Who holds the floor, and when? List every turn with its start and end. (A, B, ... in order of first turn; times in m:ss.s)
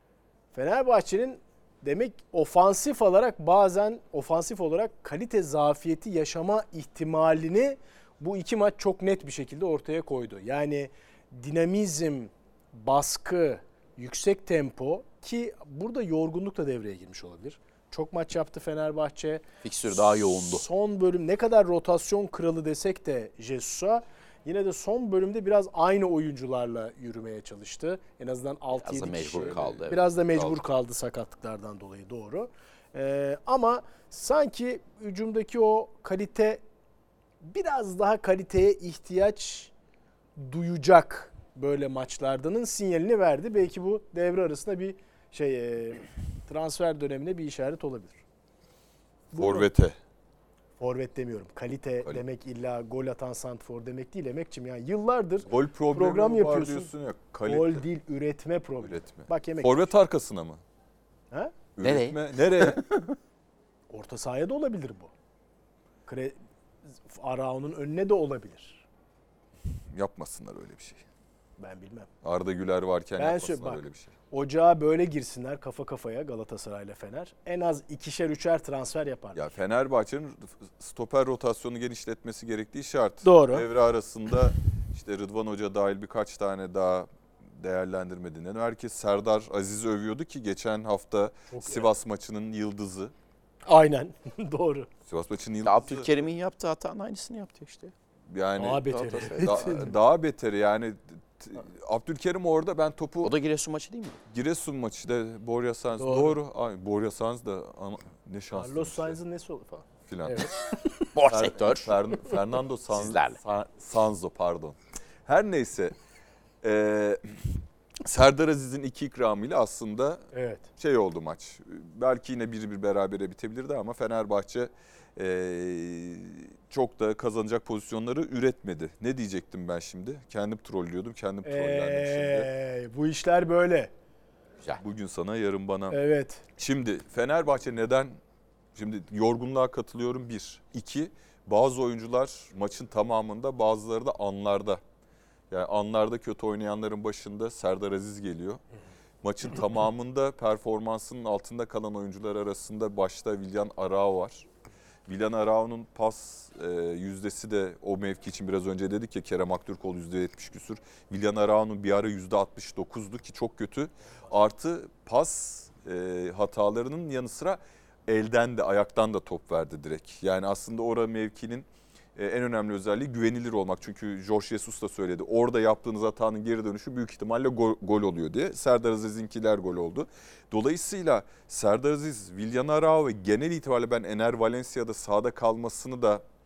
0:00.5-0:19.4 A
0:19.6-0:20.6 B
0:20.0-0:36.6 A
0:28.7-0:30.1 B
0:29.3-0:30.6 C
0:37.4-0:39.7 A
0:40.4-0:48.2 A
0:49.3-0:49.7 A
0:49.4-0:50.0 C
0:50.8-0:56.9 A
0:55.5-0:57.8 C
0:57.4-0:59.9 A
0:58.8-1:00.6 C
1:01.8-1:02.8 C
1:01.8-1:03.2 B
1:03.9-1:05.1 A
1:06.1-1:06.4 A
1:07.0-1:08.8 A
1:09.9-1:11.0 C
1:11.6-1:12.1 A
1:12.2-1:14.1 C
1:13.2-1:19.5 A
1:19.3-1:33.1 C
1:23.2-1:23.7 A
1:31.5-1:31.9 A
1:33.6-1:34.9 A
1:35.1-1:36.1 C
1:35.6-1:37.9 B
1:38.3-1:43.3 C
1:38.6-1:39.9 A
1:39.0-1:39.6 B
1:43.2-1:44.2 B
1:44.3-1:49.2 C
1:46.0-1:46.4 A
1:48.5-1:50.6 A
1:50.1-1:50.5 C
1:51.1-1:51.9 B
1:51.3-1:56.0 C
1:52.9-1:53.4 B
1:56.6-2:00.2 C
2:00.3-2:00.7 A
2:00.8-2:12.5 C
2:11.4-2:13.9 A
2:14.8-2:16.0 C
2:15.9-2:16.4 A
2:16.6-2:18.2 C
2:18.7-2:24.8 C
2:25.5-2:28.6 C
2:29.2-2:34.5 C
2:35.1-3:06.2 C